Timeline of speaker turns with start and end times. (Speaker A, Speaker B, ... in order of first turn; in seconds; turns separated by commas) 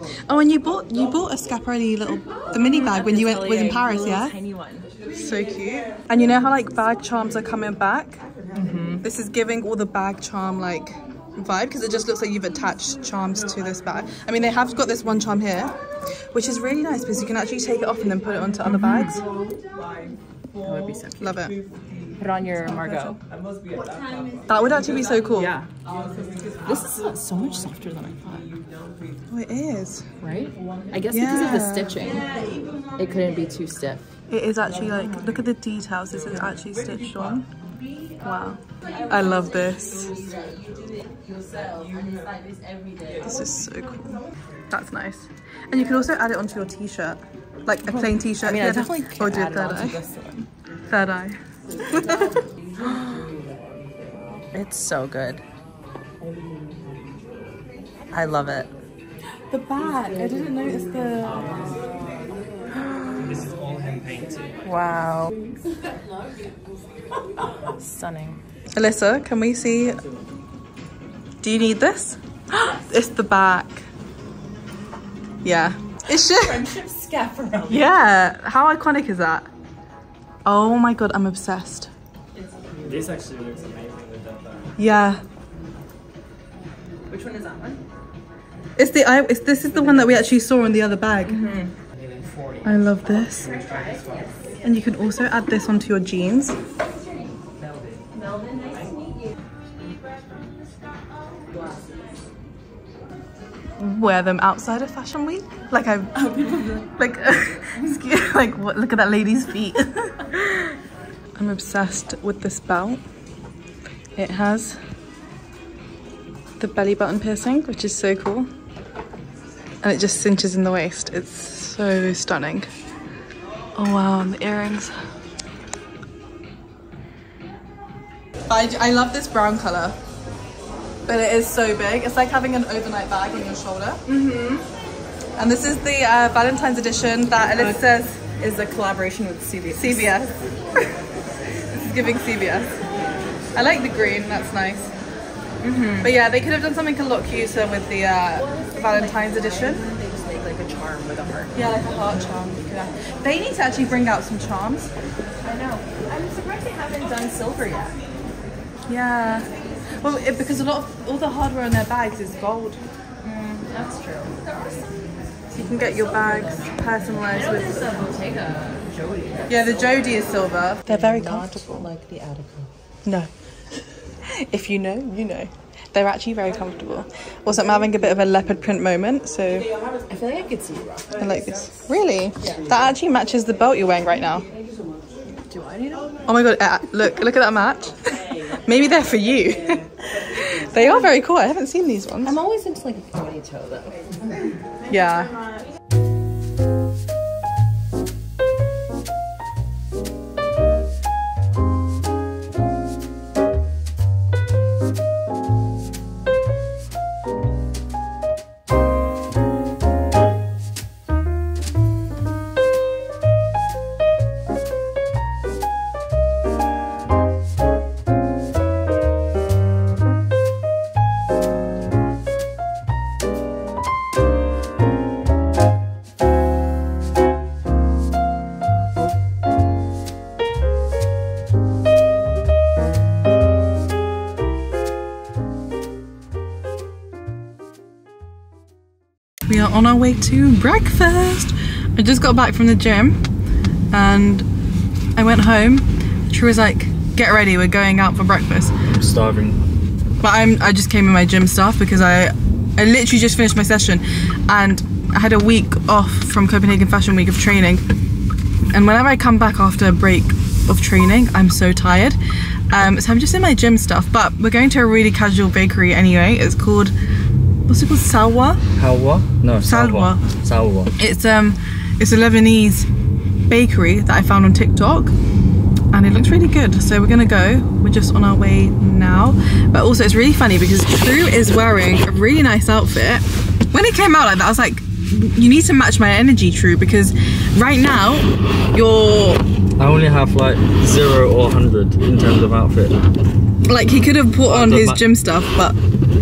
Speaker A: 0.3-4.4, Speaker B: 2.7-4.9, Speaker A: 5.2-8.2, Speaker B: 8.5-9.0, Speaker A: 9.0-15.8, Speaker A: 16.3-19.2, Speaker B: 18.7-19.0, Speaker B: 20.6-21.3, Speaker A: 21.2-21.6, Speaker B: 22.2-23.2, Speaker A: 24.5-25.5, Speaker B: 25.4-25.7, Speaker B: 26.6-28.5, Speaker A: 29.3-30.1, Speaker B: 30.2-32.4, Speaker A: 31.1-32.0, Speaker B: 33.0-34.1, Speaker A: 34.3-37.5, Speaker A: 38.2-40.1, Speaker B: 41.1-43.2, Speaker A: 43.2-50.0, Speaker B: 47.9-50.5, Speaker A: 50.9-52.3, Speaker B: 51.9-52.3, Speaker A: 52.9-53.1, Speaker B: 54.5-55.4, Speaker B: 58.1-58.7, Speaker A: 59.5-61.7, Speaker B: 63.1-63.4, Speaker B: 64.7-65.3, Speaker B: 67.6-68.4, Speaker A: 68.7-70.0, Speaker A: 71.4-73.9, Speaker A: 75.4-76.6, Speaker B: 76.1-77.9, Speaker A: 77.7-79.5, Speaker A: 80.5-81.9, Speaker A: 84.8-85.2, Speaker B: 87.1-87.8, Speaker A: 88.8-91.5, Speaker B: 91.3-91.7, Speaker A: 92.6-93.6, Speaker B: 93.7-94.3, Speaker A: 94.6-96.6, Speaker B: 98.4-98.8, Speaker A: 103.8-110.7, Speaker A: 111.4-113.0, Speaker A: 114.2-114.8, Speaker A: 116.6-118.5, Speaker A: 119.8-122.7, Speaker A: 123.8-124.9, Speaker A: 128.5-130.0, Speaker A: 131.1-134.0, Speaker B: 134.1-134.6, Speaker A: 135.4-138.2, Speaker B: 137.6-140.1, Speaker A: 139.7-140.9, Speaker A: 141.7-142.8, Speaker A: 143.6-144.9, Speaker B: 145.6-146.1, Speaker A: 146.0-149.8, Speaker B: 148.5-151.6, Speaker A: 151.6-154.9, Speaker B: 155.4-158.0, Speaker A: 158.9-159.5, Speaker A: 160.0-162.8, Speaker B: 163.2-164.8, Speaker B: 165.5-172.7, Speaker A: 165.5-168.1, Speaker A: 169.5-171.9, Speaker A: 173.1-173.3, Speaker A: 174.3-179.7, Speaker B: 180.1-181.6, Speaker A: 181.2-184.5, Speaker B: 185.5-186.2, Speaker A: 186.3-192.4, Speaker B: 192.2-194.5, Speaker A: 194.9-195.5, Speaker A: 239.5-243.2, Speaker A: 243.9-244.5, Speaker A: 245.2-248.8, Speaker C: 248.9-249.6, Speaker A: 250.2-257.8, Speaker A: 258.7-262.2, Speaker A: 262.7-266.9, Speaker A: 267.7-268.6, Speaker C: 268.8-270.9, Speaker A: 269.6-270.2, Speaker A: 271.0-272.9, Speaker A: 273.5-275.1, Speaker A: 275.9-289.4, Speaker C: 289.8-293.0, Speaker A: 293.7-295.8, Speaker C: 294.5-295.0